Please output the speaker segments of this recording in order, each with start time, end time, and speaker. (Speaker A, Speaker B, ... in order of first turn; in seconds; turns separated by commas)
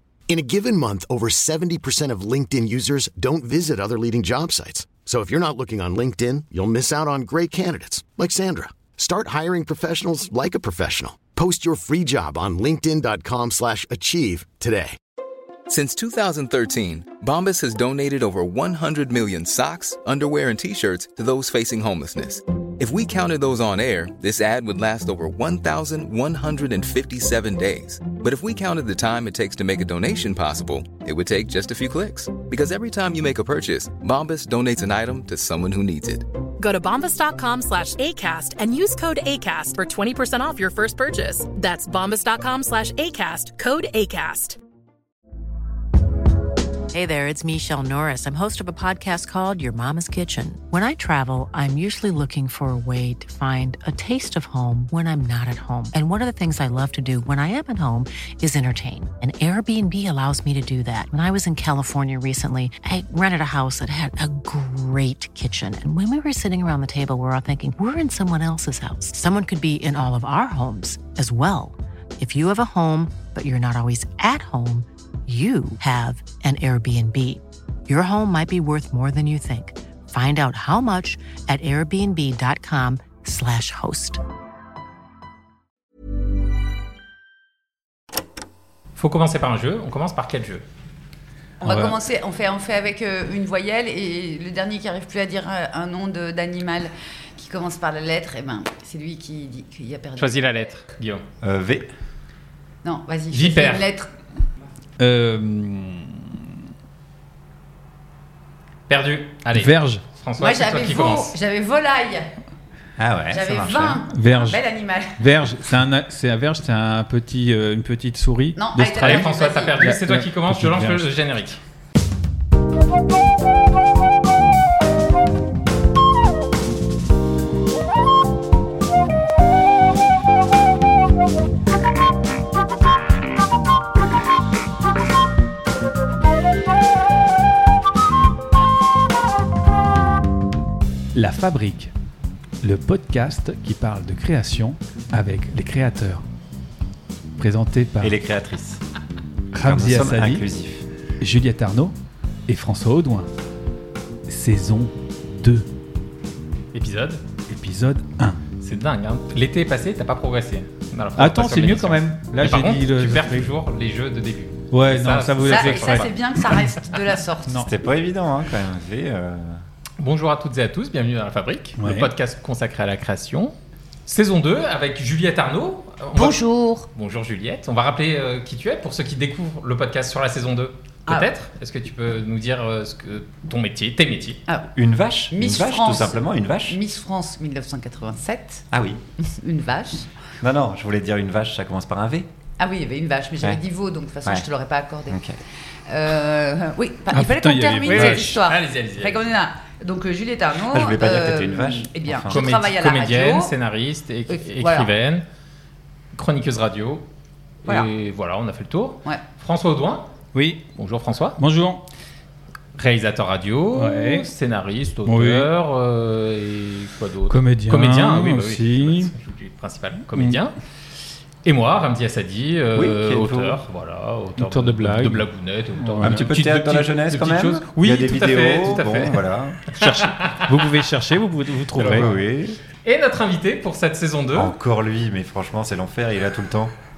Speaker A: 0.3-15.0, Speaker B: 15.7-36.3, Speaker C: 36.6-44.6, Speaker D: 46.9-84.2, Speaker E: 89.0-90.6, Speaker F: 91.6-100.3, Speaker E: 100.2-101.2, Speaker G: 101.4-101.9, Speaker F: 102.8-104.1, Speaker E: 103.3-103.8, Speaker H: 105.0-106.5, Speaker E: 108.9-111.3, Speaker H: 109.5-110.0, Speaker F: 110.4-112.3, Speaker G: 113.0-114.0, Speaker F: 113.3-115.2, Speaker H: 114.1-114.6, Speaker H: 115.2-119.2, Speaker F: 118.5-119.8, Speaker E: 119.0-121.6, Speaker H: 119.8-121.1, Speaker H: 141.1-141.9, Speaker H: 142.6-146.2, Speaker H: 147.4-148.2, Speaker G: 148.0-148.8, Speaker H: 149.5-150.4, Speaker G: 149.6-150.8, Speaker H: 151.2-151.9, Speaker H: 152.5-153.3, Speaker H: 154.3-155.7, Speaker E: 156.7-157.2, Speaker H: 157.5-158.4, Speaker E: 158.6-166.1, Speaker H: 161.2-163.5, Speaker H: 164.7-166.1, Speaker F: 165.5-167.6, Speaker G: 167.6-169.6, Speaker E: 170.0-173.5, Speaker H: 171.8-172.1, Speaker E: 174.1-176.4, Speaker F: 176.2-176.9, Speaker E: 176.9-184.4, Speaker G: 184.7-186.8, Speaker F: 185.3-188.6, Speaker G: 188.7-189.0, Speaker F: 189.2-190.1, Speaker G: 190.4-192.3, Speaker F: 192.6-195.2, Speaker G: 195.1-195.4, Speaker F: 195.9-203.5, Speaker H: 197.1-198.3, Speaker E: 197.8-199.2, Speaker G: 200.7-202.5, Speaker E: 202.3-205.2, Speaker F: 204.3-204.9, Speaker E: 206.1-207.0, Speaker E: 207.6-210.1, Speaker H: 210.3-210.6, Speaker E: 210.8-211.4, Speaker H: 211.4-211.8, Speaker E: 212.7-220.5, Speaker H: 213.7-214.3, Speaker H: 215.1-215.5, Speaker H: 217.3-219.1, Speaker E: 221.4-230.8, Speaker G: 222.7-223.6, Speaker H: 224.4-225.3, Speaker H: 225.8-226.6, Speaker G: 226.0-229.6, Speaker H: 229.7-232.1, Speaker E: 231.8-232.1, Speaker G: 231.8-232.6, Speaker E: 232.8-234.5, Speaker G: 234.3-236.7